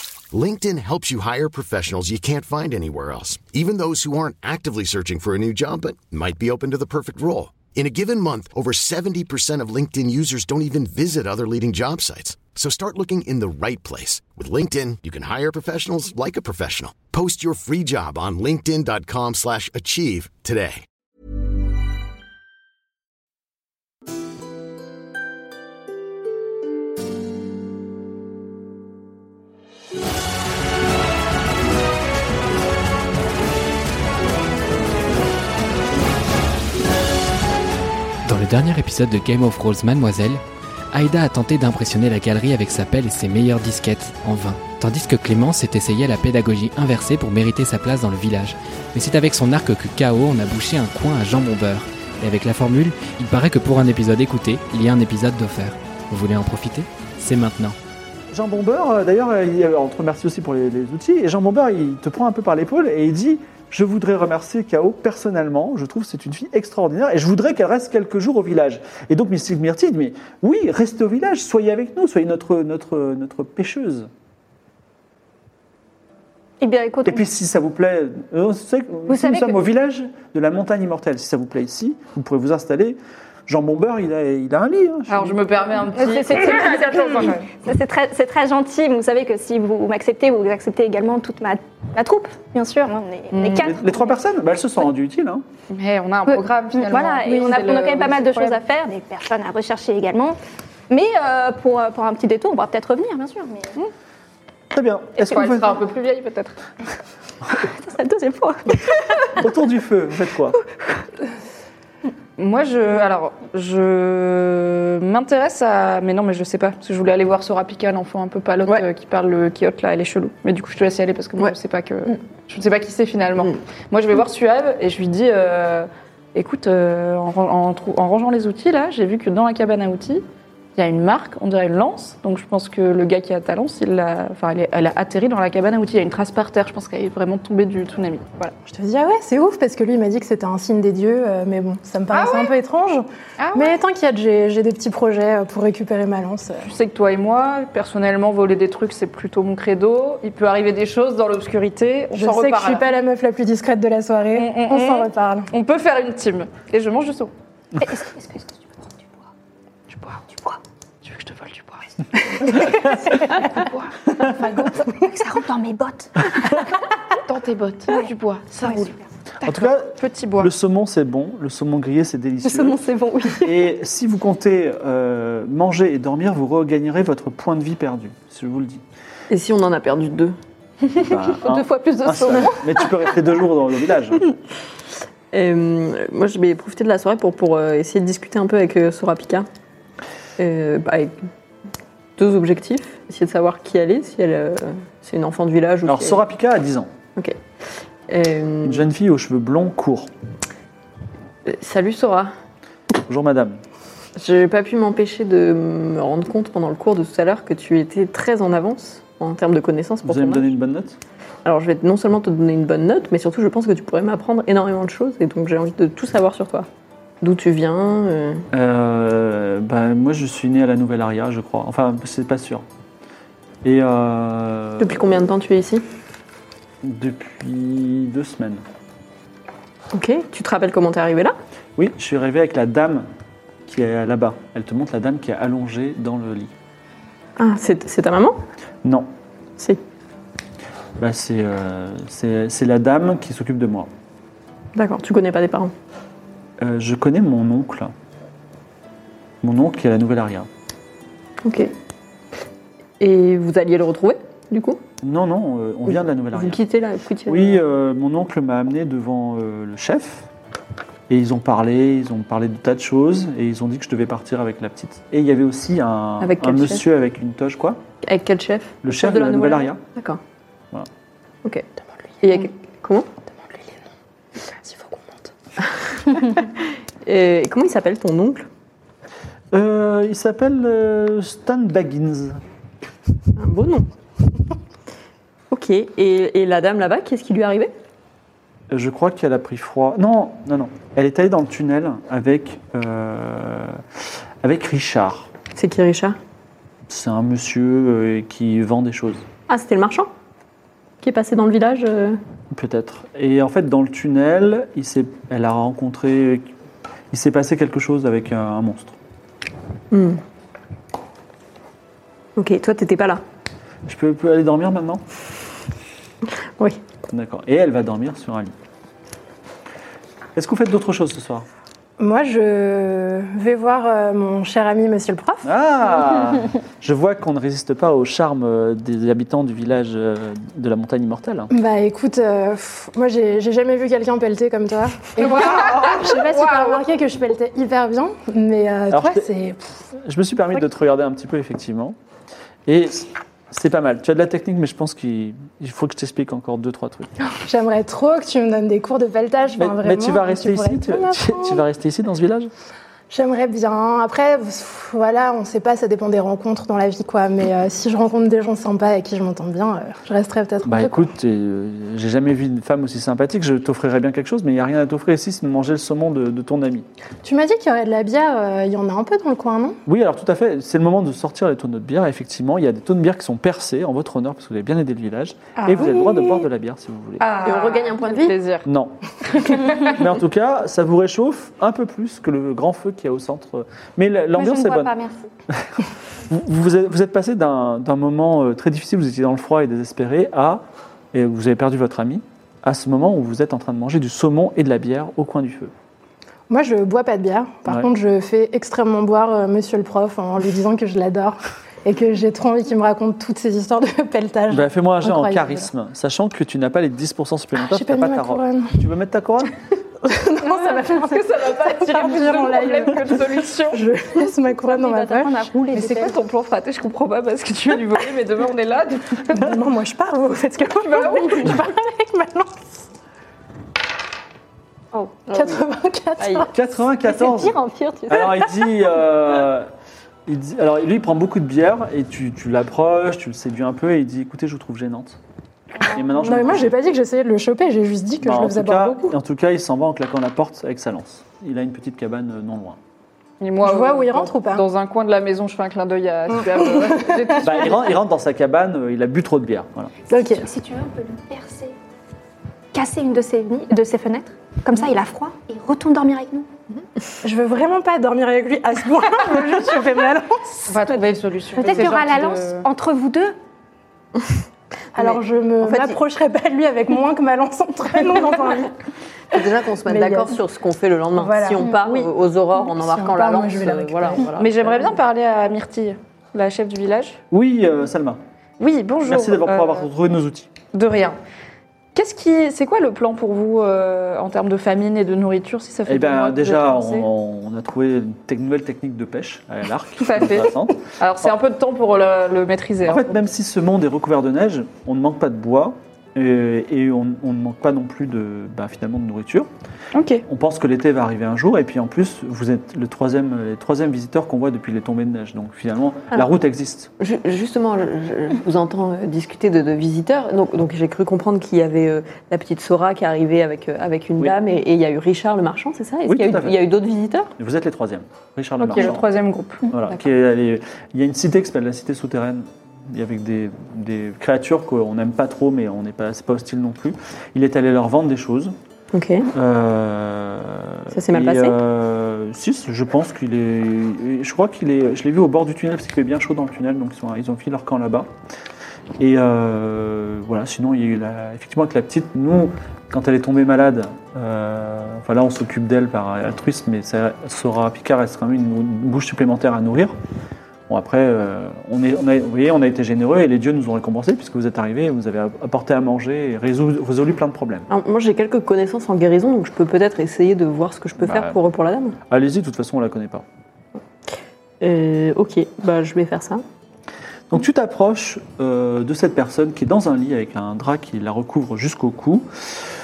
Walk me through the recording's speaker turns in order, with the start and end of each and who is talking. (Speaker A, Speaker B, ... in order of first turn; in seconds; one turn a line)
Speaker A: 0.3-20.8
Speaker B: 38.2-57.8
Speaker C: 58.3-74.1
Speaker D: 76.6-77.2
Speaker C: 77.0-85.4
Speaker D: 79.1-79.6
Speaker E: 85.1-87.5
Speaker D: 86.0-94.1
Speaker E: 93.3-93.7
Speaker C: 93.6-95.4
Speaker E: 95.7-98.6
Speaker D: 96.3-103.7
Speaker C: 104.7-105.8
Speaker E: 105.2-106.5
Speaker D: 107.5-109.4
Speaker C: 109.3-110.6
Speaker E: 112.4-130.2
Speaker E: 130.8-138.5
Speaker F: 138.6-146.7
Speaker E: 142.1-142.5
Speaker E: 143.4-143.8
Speaker E: 146.6-152.8
Speaker F: 152.1-155.5
Speaker E: 154.3-157.3
Speaker D: 157.8-158.8
Speaker E: 159.9-160.2
Speaker E: 161.0-163.9
Speaker D: 163.2-163.5
Speaker F: 164.4-165.2
Speaker D: 164.5-166.5
Speaker E: 167.1-170.5
Speaker D: 168.6-168.9
Speaker C: 169.4-178.8
Speaker D: 172.4-173.6
Speaker G: 179.3-180.3
Speaker C: 181.0-184.3
Speaker D: 181.1-182.9
Speaker G: 185.3-189.5
Speaker G: 190.4-191.1
Speaker G: 192.2-196.2
Speaker C: 195.8-196.9
Speaker G: 198.1-198.9
Speaker C: 198.6-200.1
Speaker G: 201.4-202.3
Speaker C: 203.0-203.6
Speaker G: 204.2-210.5
Speaker C: 210.0-211.0
Speaker G: 211.4-216.7
Speaker G: 217.2-218.4
Speaker C: 218.5-222.6
Speaker C: 223.6-225.1
Speaker G: 224.8-225.8
Speaker C: 226.8-228.6
Speaker G: 229.9-231.3
Speaker C: 231.8-233.1
Speaker C: 233.7-236.5
Speaker G: 237.4-238.4
Speaker C: 238.8-239.1
Speaker C: 241.0-243.9
Speaker G: 244.7-245.7
Speaker C: 246.6-247.9
Speaker C: 249.4-250.5
Speaker G: 251.4-251.7
Speaker G: 253.0-254.8
Speaker C: 255.0-256.6
Speaker G: 256.3-257.6
Speaker C: 257.3-260.3
Speaker C: 261.1-267.8
Speaker G: 266.2-266.9
Speaker G: 268.0-270.2
Speaker C: 268.8-269.8
Speaker G: 272.2-273.1
Speaker F: 273.4-273.8
Speaker F: 274.6-275.3
Speaker G: 276.1-278.5
Speaker C: 279.5-282.4
Speaker G: 283.3-283.9
Speaker G: 285.5-287.7
Speaker C: 288.7-293.8
Speaker C: 294.4-295.3
Speaker G: 295.5-296.2
Speaker C: 296.9-299.3
Speaker G: 299.5-300.1
Speaker G: 301.0-302.2
Speaker C: 302.5-306.5
Speaker C: 307.1-308.9
Speaker G: 309.9-310.2
Speaker G: 312.4-313.2
Speaker C: 313.9-315.0
Speaker C: 317.1-318.5
Speaker C: 320.4-321.4
Speaker F: 322.0-325.5
Speaker C: 325.4-331.5
Speaker F: 331.5-339.7
Speaker E: 335.2-336.8
Speaker C: 338.9-339.3
Speaker C: 340.0-341.9
Speaker C: 342.6-347.1
Speaker F: 347.3-351.6
Speaker C: 349.6-352.5
Speaker F: 353.1-361.1
Speaker C: 360.6-366.8
Speaker F: 367.2-369.8
Speaker C: 369.9-377.3
Speaker F: 375.6-376.4
Speaker E: 377.2-378.6
Speaker G: 377.4-378.4
Speaker C: 378.6-384.9
Speaker E: 379.4-379.9
Speaker D: 384.4-385.3
Speaker C: 385.5-390.6
Speaker C: 391.1-395.7
Speaker F: 396.5-405.7
Speaker C: 404.5-409.6
Speaker F: 407.6-408.9
Speaker F: 410.0-415.7
Speaker E: 410.4-413.8
Speaker D: 414.6-416.1
Speaker E: 415.7-419.5
Speaker F: 419.3-422.7
Speaker E: 420.8-421.6
Speaker F: 425.3-426.5
Speaker G: 426.2-426.5
Speaker C: 426.5-429.7
Speaker G: 427.0-428.7
Speaker C: 430.2-435.2
Speaker C: 435.9-436.8
Speaker F: 436.1-439.2
Speaker C: 438.2-442.8
Speaker E: 443.4-447.9
Speaker F: 443.6-444.7
Speaker F: 446.6-447.4
Speaker C: 447.4-449.9
Speaker F: 450.1-450.5
Speaker D: 450.3-451.8
Speaker D: 452.7-456.5
Speaker F: 457.2-460.7
Speaker E: 460.6-462.6
Speaker D: 461.5-463.4
Speaker F: 464.9-468.7
Speaker D: 464.9-466.0
Speaker G: 469.3-475.0
Speaker F: 469.8-470.4
Speaker F: 471.1-471.7
Speaker D: 471.6-471.9
Speaker F: 472.6-474.2
Speaker E: 474.3-477.2
Speaker C: 477.3-478.2
Speaker E: 478.6-479.9
Speaker C: 479.0-480.5
Speaker E: 480.7-481.2
Speaker E: 481.9-487.1
Speaker C: 485.9-491.3
Speaker E: 490.0-493.1
Speaker C: 492.9-499.5
Speaker E: 499.9-500.2
Speaker C: 500.3-506.9
Speaker G: 507.0-517.3
Speaker C: 516.0-516.6
Speaker C: 517.4-519.1
Speaker E: 518.6-519.7
Speaker C: 519.7-528.5
Speaker G: 528.9-529.3
Speaker C: 529.3-538.1
Speaker G: 530.9-531.6
Speaker C: 539.0-549.9
Speaker C: 550.7-557.7
Speaker G: 557.7-562.0
Speaker C: 561.0-561.4
Speaker C: 562.1-563.2
Speaker G: 564.6-566.4
Speaker C: 567.3-572.3